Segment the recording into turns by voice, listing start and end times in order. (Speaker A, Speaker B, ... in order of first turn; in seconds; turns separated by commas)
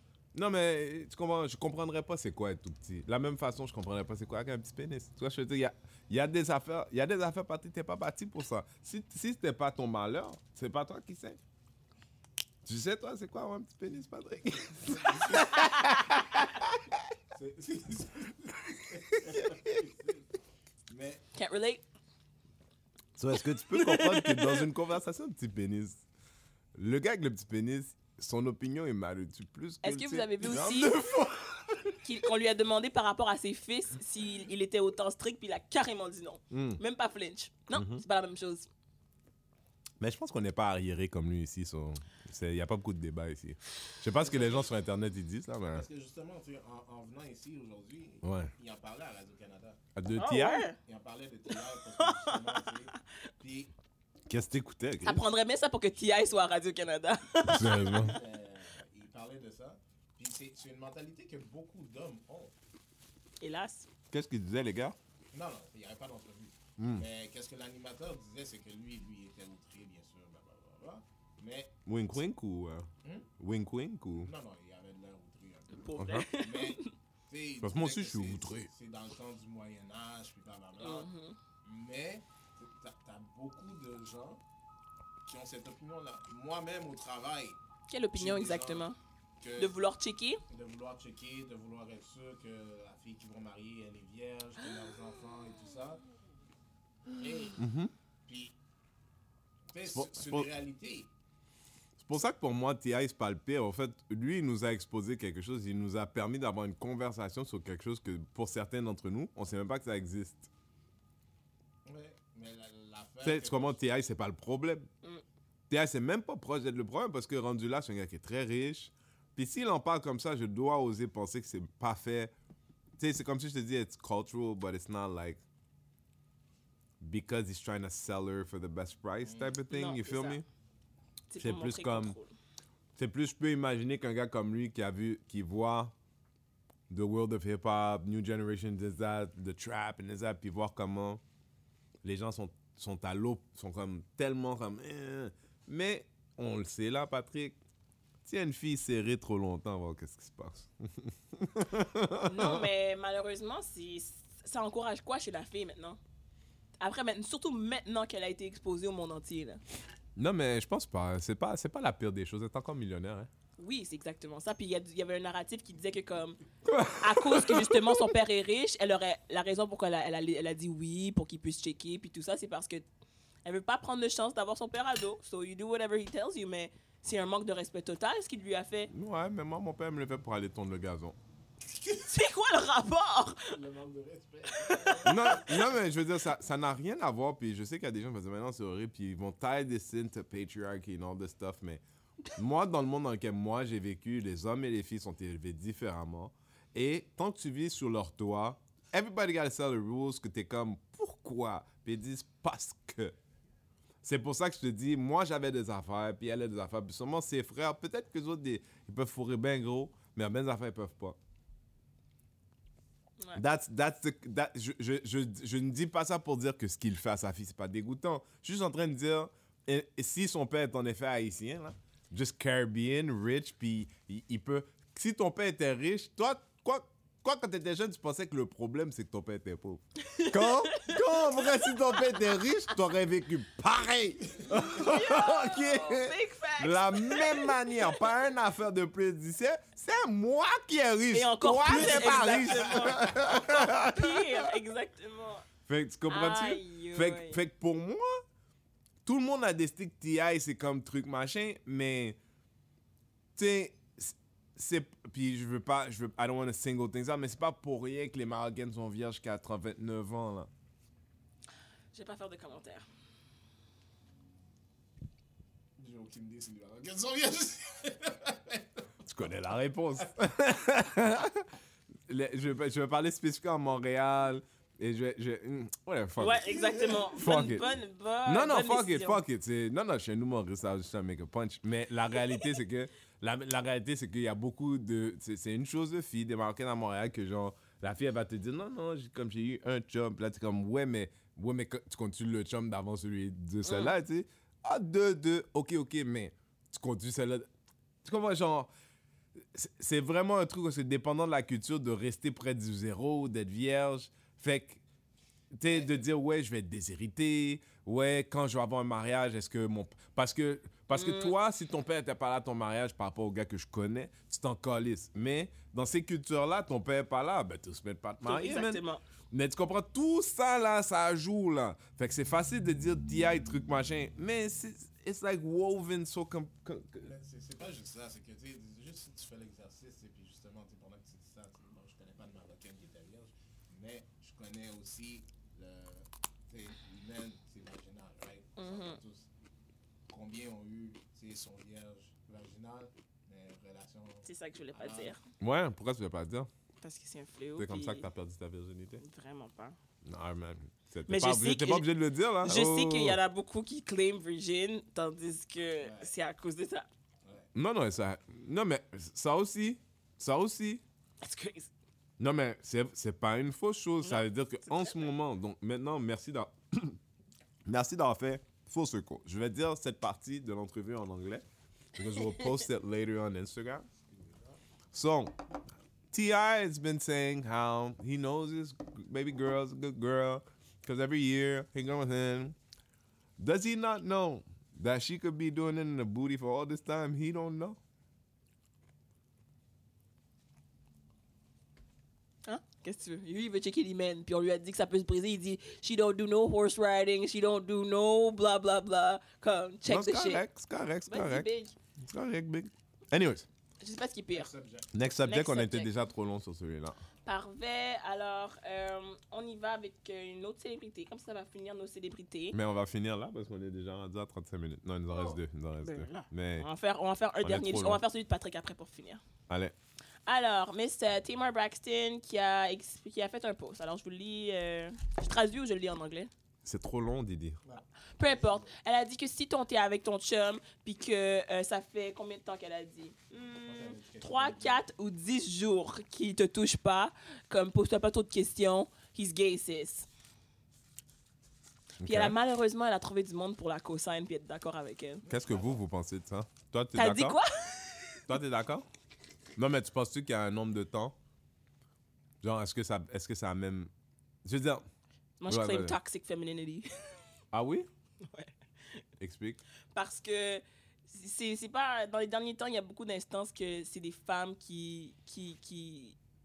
Speaker A: 0.3-11.4, Speaker A: 12.7-17.0, Speaker B: 14.9-15.6, Speaker B: 17.3-20.3, Speaker A: 18.8-19.8, Speaker B: 20.9-21.2, Speaker C: 21.4-21.8, Speaker A: 23.2-26.0, Speaker C: 23.7-24.7, Speaker A: 26.8-32.0, Speaker C: 29.8-30.9, Speaker C: 32.0-38.7, Speaker A: 36.5-36.8, Speaker A: 37.7-38.0, Speaker A: 40.0-45.9, Speaker B: 44.2-44.7, Speaker B: 45.7-49.8, Speaker A: 48.2-48.5, Speaker A: 50.0-50.7, Speaker C: 50.2-50.8, Speaker B: 50.9-53.7, Speaker C: 51.5-52.8, Speaker A: 54.3-55.2, Speaker C: 55.0-58.1, Speaker A: 57.4-58.2, Speaker B: 57.8-62.5, Speaker C: 63.4-63.9, Speaker A: 64.1-65.0, Speaker B: 65.3-71.8, Speaker A: 66.8-67.0, Speaker A: 71.9-74.3, Speaker B: 73.0-73.3, Speaker B: 74.2-81.1, Speaker C: 75.7-76.9, Speaker A: 76.0-76.3, Speaker A: 77.6-78.7, Speaker C: 80.8-81.4, Speaker B: 81.6-84.4, Speaker B: 85.2-87.6, Speaker C: 87.9-89.0, Speaker B: 88.1-88.9, Speaker B: 89.4-89.8, Speaker C: 89.6-90.4, Speaker B: 90.5-96.0, Speaker B: 97.1-97.6, Speaker A: 97.6-97.9, Speaker B: 98.3-98.6, Speaker B: 99.7-101.1, Speaker A: 99.9-100.5, Speaker A: 102.0-110.5, Speaker B: 111.8-113.8, Speaker A: 113.2-114.9, Speaker A: 115.7-122.3, Speaker A: 123.0-125.4, Speaker A: 127.0-130.4, Speaker B: 129.2-129.6, Speaker C: 129.7-130.4, Speaker C: 131.3-132.3, Speaker A: 131.4-132.2, Speaker A: 133.0-135.9, Speaker A: 136.9-141.2, Speaker A: 142.0-147.6, Speaker A: 148.2-152.7, Speaker C: 152.3-156.0, Speaker C: 156.8-159.6, Speaker A: 160.2-163.3, Speaker C: 163.6-166.4, Speaker A: 166.7-168.1, Speaker C: 166.9-172.8, Speaker C: 173.4-178.9, Speaker A: 178.9-181.2, Speaker C: 182.0-183.6, Speaker B: 183.5-185.6, Speaker C: 184.5-185.6, Speaker A: 185.1-191.8, Speaker A: 192.3-203.1, Speaker A: 204.0-211.2, Speaker A: 213.3-244.6, Speaker C: 230.1-232.0, Speaker C: 234.5-238.1, Speaker C: 241.1-245.4, Speaker B: 241.7-243.1, Speaker A: 245.7-248.2, Speaker C: 246.1-247.4, Speaker A: 249.1-252.2, Speaker A: 253.4-260.5, Speaker C: 261.9-262.8, Speaker B: 265.8-269.0, Speaker A: 269.1-271.5, Speaker A: 272.1-276.5, Speaker C: 276.2-279.2, Speaker B: 276.4-277.3, Speaker A: 277.2-277.7, Speaker A: 278.3-297.5, Speaker C: 293.7-293.9, Speaker A: 298.0-298.7, Speaker A: 299.5-304.8, Speaker A: 305.6-327.1, Speaker C: 310.9-311.3, Speaker C: 318.2-319.0, Speaker B: 327.0-339.3, Speaker C: 338.6-339.0, Speaker B: 340.1-345.1, Speaker C: 344.3-345.2, Speaker A: 345.4-346.5, Speaker C: 346.8-348.1, Speaker A: 347.6-349.0, Speaker C: 349.0-349.8, Speaker A: 350.1-353.2, Speaker C: 351.1-351.9, Speaker C: 352.4-356.9, Speaker B: 355.8-356.1, Speaker A: 357.5-360.8, Speaker C: 361.2-361.7, Speaker A: 362.2-367.0, Speaker C: 364.0-365.1, Speaker A: 367.7-373.9, Speaker C: 372.2-372.4, Speaker B: 374.1-374.6, Speaker A: 374.9-375.3, Speaker A: 376.1-382.6, Speaker A: 383.4-387.8, Speaker C: 392.4-400.4, Speaker A: 399.9-401.5, Speaker C: 401.1-401.8, Speaker A: 402.0-403.5, Speaker C: 403.8-404.5, Speaker B: 404.3-405.0, Speaker A: 404.9-407.0, Speaker C: 405.2-405.9, Speaker C: 407.2-412.6, Speaker A: 412.5-416.7, Speaker C: 415.1-419.2, Speaker A: 417.4-418.0, Speaker A: 419.5-419.8, Speaker C: 420.3-426.3, Speaker A: 426.6-427.6, Speaker B: 427.6-428.7, Speaker C: 428.2-440.1, Speaker B: 433.6-434.8, Speaker A: 442.0-442.4, Speaker C: 442.0-445.2, Speaker B: 445.2-445.8, Speaker A: 445.3-447.4, Speaker C: 447.0-448.2, Speaker A: 448.3-448.9, Speaker A: 449.6-451.1, Speaker A: 452.4-453.9, Speaker A: 454.4-454.9, Speaker C: 455.4-456.9, Speaker A: 455.5-456.0, Speaker A: 457.5-457.9, Speaker C: 458.2-458.5, Speaker A: 459.2-459.6, Speaker C: 459.9-466.2